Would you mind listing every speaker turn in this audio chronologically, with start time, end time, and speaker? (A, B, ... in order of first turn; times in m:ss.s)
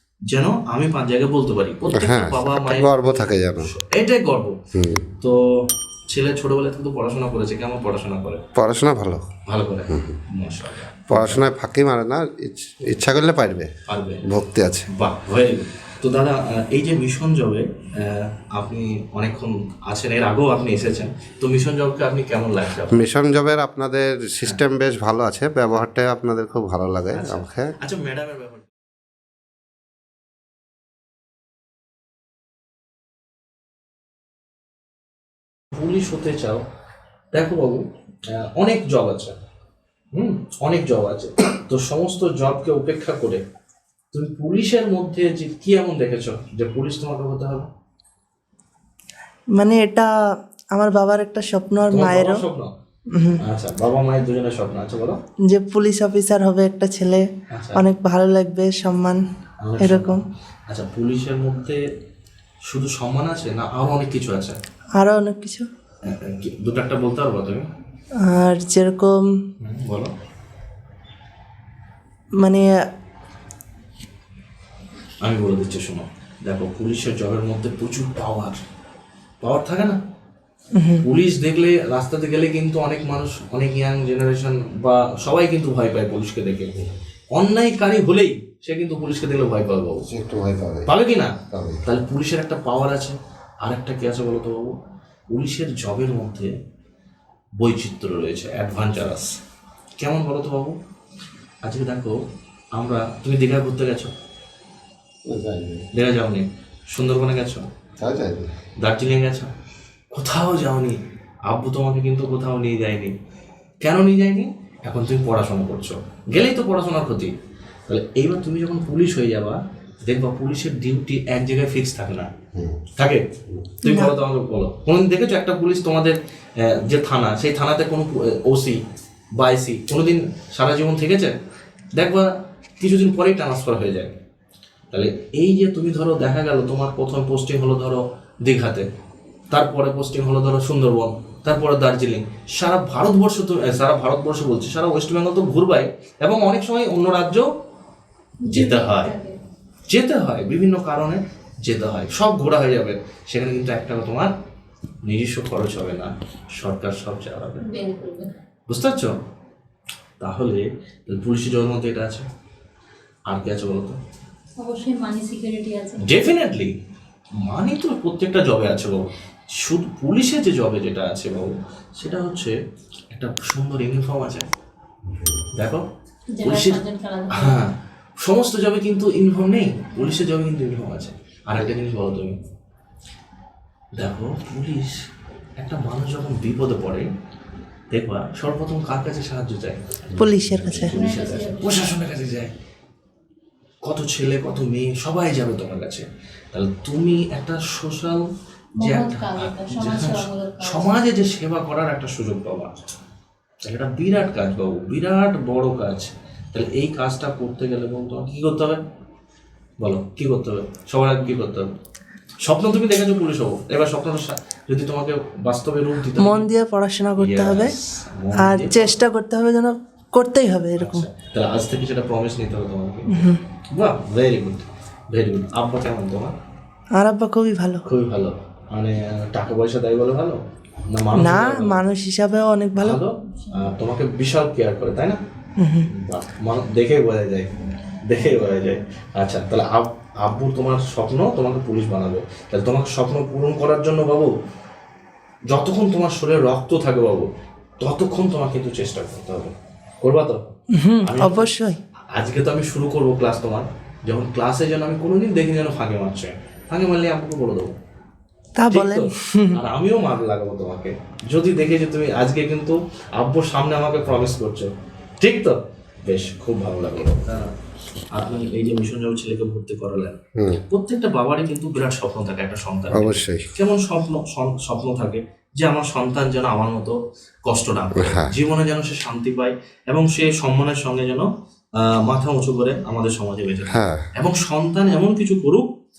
0:00.3-0:03.0 A
0:01.9-0:03.7 B
0:03.6-0:04.6 A
0:04.7-0:05.1 B
0:05.2-0:08.4 A
0:08.6-0:09.3 B
0:09.5-0:11.4 A
0:09.9-0:10.2 B
0:11.1-0:13.7 B
0:13.9-0:14.2 A
0:14.2-0:14.9 B
0:14.9-0:23.0 A
0:22.9-0:27.8 B
0:27.1-0:28.7 A
0:35.7-0:36.6 A
0:37.3-0:39.4 A
0:40.1-0:43.4 A
0:44.1-0:47.7 A
0:49.6-0:50.1 C
0:50.7-0:52.4 C
0:51.9-0:52.7 A
0:53.1-0:53.4 C
0:53.4-0:55.2 A
0:55.5-0:59.2 C
0:57.5-0:57.9 A
0:59.6-1:01.8 A
0:59.8-1:00.2 C
1:02.7-1:04.6 A
1:05.0-1:05.7 C
1:06.0-1:07.7 A
1:08.2-1:09.3 C
1:09.6-1:10.1 A
1:12.4-1:12.7 C
1:15.2-1:18.6 A
1:19.4-1:20.0 A
1:20.8-1:21.0 C
1:21.0-1:26.8 A
1:27.3-1:30.1 A
1:30.1-1:30.9 B
1:30.9-1:34.8 A
1:31.5-1:31.8 B
1:35.3-1:36.6 A
1:37.6-1:39.4 A
1:40.0-1:40.8 A
1:41.6-1:42.2 A
1:42.8-1:44.1 A
1:45.3-1:45.8 B
1:45.9-1:47.7 A
1:48.0-1:48.5 B
1:48.8-1:49.5 A
1:50.1-1:53.1 A
1:53.8-1:57.3 A
1:57.9-2:02.3 A
2:02.5-2:02.8 B
2:03.0-2:03.3 A
2:03.8-2:08.8 A
2:03.9-2:04.1 C
2:09.4-2:11.4 A
2:12.0-2:14.2 A
2:14.9-2:18.9 A
2:19.5-2:27.5 A
2:28.4-2:29.4 D
2:28.5-2:29.2 A
2:29.9-2:34.3 A
2:35.0-2:37.7 A
2:37.6-2:38.3 D
2:38.7-2:39.2 A
2:40.2-2:42.3 A
2:43.3-2:44.0 A
2:44.6-2:46.0 D
2:46.0-2:46.8 A
2:47.4-2:52.6 A
2:53.1-2:54.5 A
2:55.1-2:55.5 B
2:55.5-2:55.9 A
2:56.3-2:57.7 D
2:56.4-3:02.4 A
3:04.0-3:07.1 A
3:07.9-3:12.5 A
3:10.1-3:10.9 B
3:10.2-3:10.9 C
3:10.9-3:11.9 D
3:13.8-3:18.3 A
3:18.8-3:21.0 D
3:18.8-3:22.8 A
3:23.6-3:28.8 A
3:29.8-3:31.7 A
3:32.4-3:36.5 A
3:36.2-3:37.8 C
3:37.2-3:39.0 A
3:38.3-3:41.1 C
3:40.8-3:46.4 A
3:43.1-3:43.4 C
3:47.0-3:47.8 C
3:47.8-3:51.8 A
3:51.1-3:53.0 C
3:52.8-3:55.2 A
3:55.6-3:55.9 C
3:55.9-4:04.3 A
4:05.5-4:07.3 A
4:07.8-4:11.5 A
4:10.8-4:11.8 C
4:12.1-4:17.7 A
4:18.6-4:19.6 C
4:18.7-4:27.5 A
4:28.1-4:30.2 A
4:30.4-4:30.6 B
4:30.7-4:45.7 A
4:32.9-4:33.5 B
4:38.0-4:38.4 B
4:43.7-4:44.1 B